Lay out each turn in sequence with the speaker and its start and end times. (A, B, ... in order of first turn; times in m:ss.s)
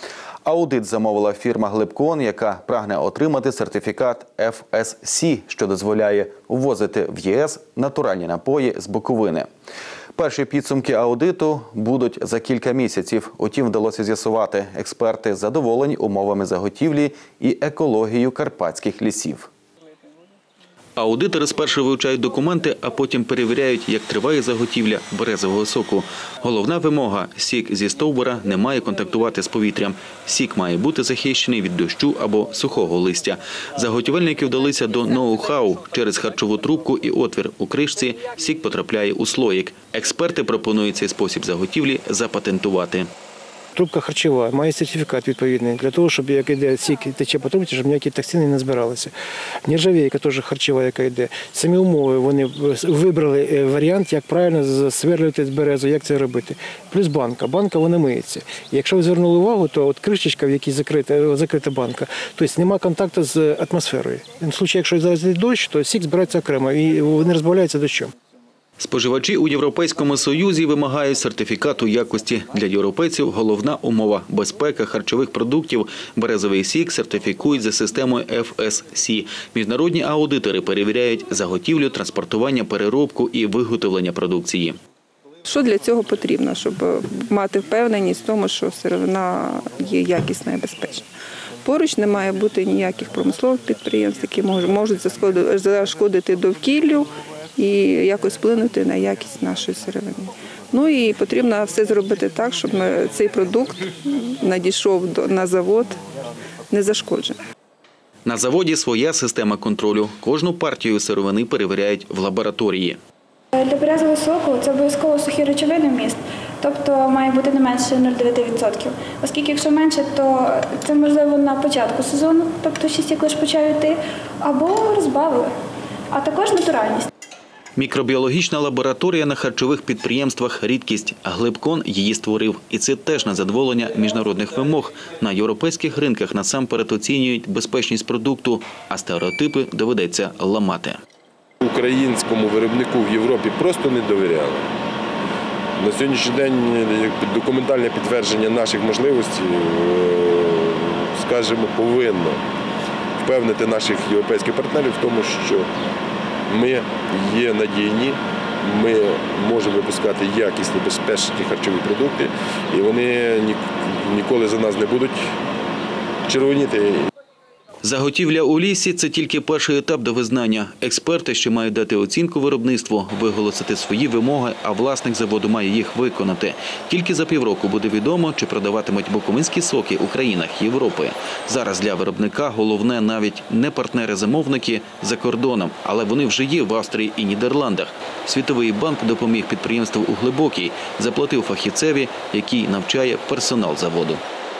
0:00.4-0:09.5 A
0:10.2-0:19.5 A
0:21.0-0:43.1 A
0:43.7-0:49.1 B
0:49.6-1:08.1 B
1:08.8-1:24.8 A
1:25.4-1:31.0 C
1:31.6-1:46.0 C
1:46.7-1:47.4 C
1:48.2-1:53.0 A
1:53.5-2:05.5 D
2:06.1-2:07.1 D
2:07.8-2:21.0 A
2:21.6-2:24.7 E
2:25.8-2:32.4 E
2:33.2-2:35.7 E
2:36.5-2:45.2 E
2:46.3-2:47.1 E
2:47.8-3:14.2 A